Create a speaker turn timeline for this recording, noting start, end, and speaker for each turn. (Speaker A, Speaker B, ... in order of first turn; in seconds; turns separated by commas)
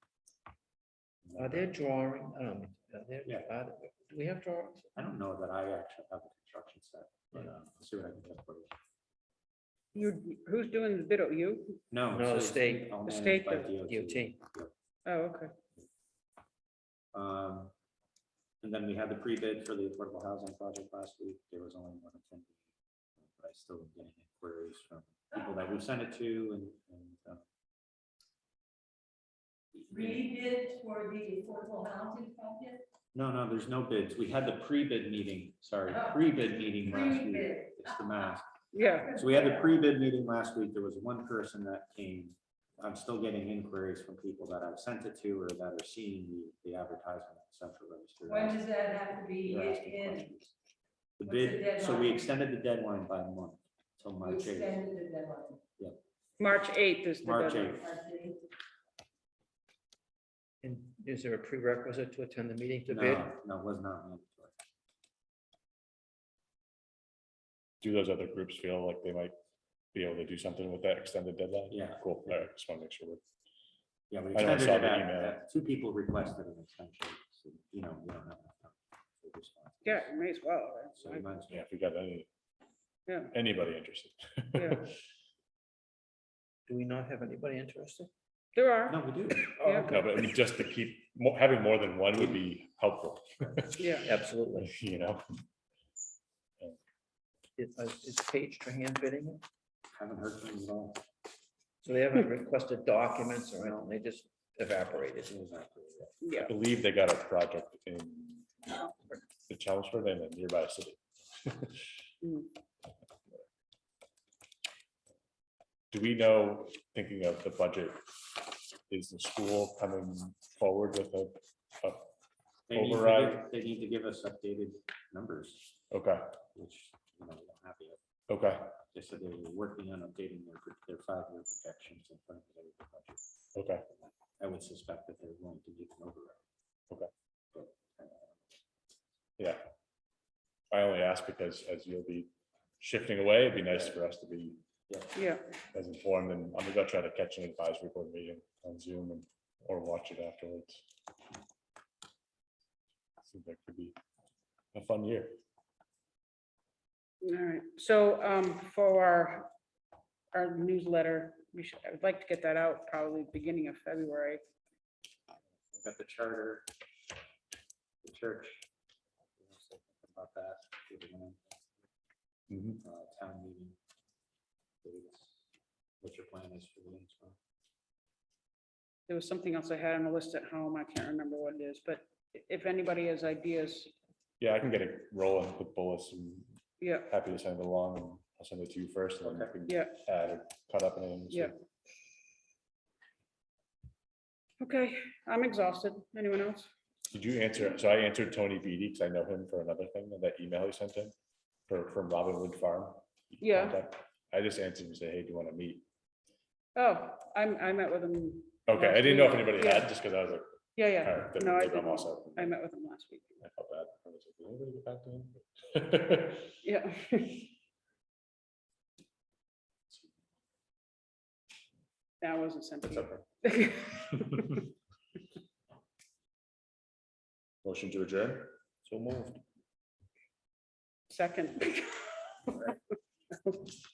Speaker A: 1.2-1.6, Speaker B: 1.3-4.9, Speaker A: 5.0-8.7, Speaker C: 9.9-11.8, Speaker A: 11.9-14.7, Speaker B: 12.1-13.0, Speaker C: 13.1-13.7, Speaker B: 13.6-14.4, Speaker C: 15.1-15.5, Speaker A: 17.1-17.7, Speaker A: 18.6-22.6, Speaker A: 23.3-27.4, Speaker A: 29.7-30.3, Speaker D: 30.1-32.8, Speaker A: 33.1-38.4, Speaker C: 38.7-39.2, Speaker A: 39.0-50.5, Speaker D: 48.3-50.2, Speaker A: 51.2-54.9, Speaker D: 51.5-52.0, Speaker D: 54.7-55.6, Speaker C: 56.4-57.8, Speaker A: 57.2-58.0, Speaker D: 57.9-58.4, Speaker B: 60.6-63.3, Speaker A: 62.9-64.5, Speaker E: 67.8-69.3, Speaker E: 69.9-73.2, Speaker A: 71.7-72.4, Speaker A: 74.1-80.1, Speaker E: 74.3-75.4, Speaker C: 79.8-81.2, Speaker A: 80.9-81.6, Speaker E: 81.5-82.3, Speaker C: 83.1-83.3, Speaker E: 83.3-85.0, Speaker C: 84.5-84.9, Speaker B: 86.7-88.1, Speaker C: 88.5-89.0, Speaker A: 88.9-89.5, Speaker B: 89.6-90.0, Speaker C: 89.6-90.0, Speaker E: 89.9-94.1, Speaker C: 93.8-94.1, Speaker B: 93.9-94.7, Speaker E: 94.6-95.2, Speaker B: 97.6-99.4, Speaker A: 100.0-101.0, Speaker B: 101.8-105.3, Speaker A: 103.6-103.9, Speaker A: 105.1-106.2, Speaker C: 106.2-106.5, Speaker E: 106.4-108.5, Speaker E: 109.5-111.9, Speaker C: 112.2-112.5, Speaker E: 115.9-122.1, Speaker A: 122.7-125.7, Speaker E: 122.7-123.4, Speaker E: 125.9-126.2, Speaker A: 126.5-128.0, Speaker E: 128.3-128.7, Speaker A: 128.7-133.2, Speaker E: 133.5-133.8, Speaker A: 133.9-136.4, Speaker A: 137.5-138.3, Speaker E: 140.7-142.3, Speaker E: 142.8-144.6, Speaker C: 145.1-145.5, Speaker E: 145.7-150.8, Speaker E: 153.2-153.9, Speaker E: 154.7-155.4, Speaker C: 157.2-159.5, Speaker C: 160.3-164.4, Speaker A: 165.7-166.7, Speaker A: 168.0-168.7, Speaker A: 169.4-171.7, Speaker E: 172.5-172.8, Speaker A: 172.8-173.8, Speaker A: 174.8-175.4, Speaker A: 176.0-177.4, Speaker C: 179.1-183.9, Speaker E: 184.4-191.5, Speaker C: 186.8-187.1, Speaker A: 189.2-189.5, Speaker C: 189.7-189.9, Speaker C: 194.6-196.7, Speaker E: 197.1-201.1, Speaker E: 201.7-205.8, Speaker C: 203.4-203.8, Speaker C: 206.7-209.9, Speaker E: 208.7-212.6, Speaker C: 210.8-213.4, Speaker E: 213.4-216.6, Speaker C: 216.6-217.5, Speaker C: 222.2-224.6, Speaker E: 227.6-228.5, Speaker B: 228.8-229.4, Speaker C: 231.1-232.8, Speaker C: 233.4-233.7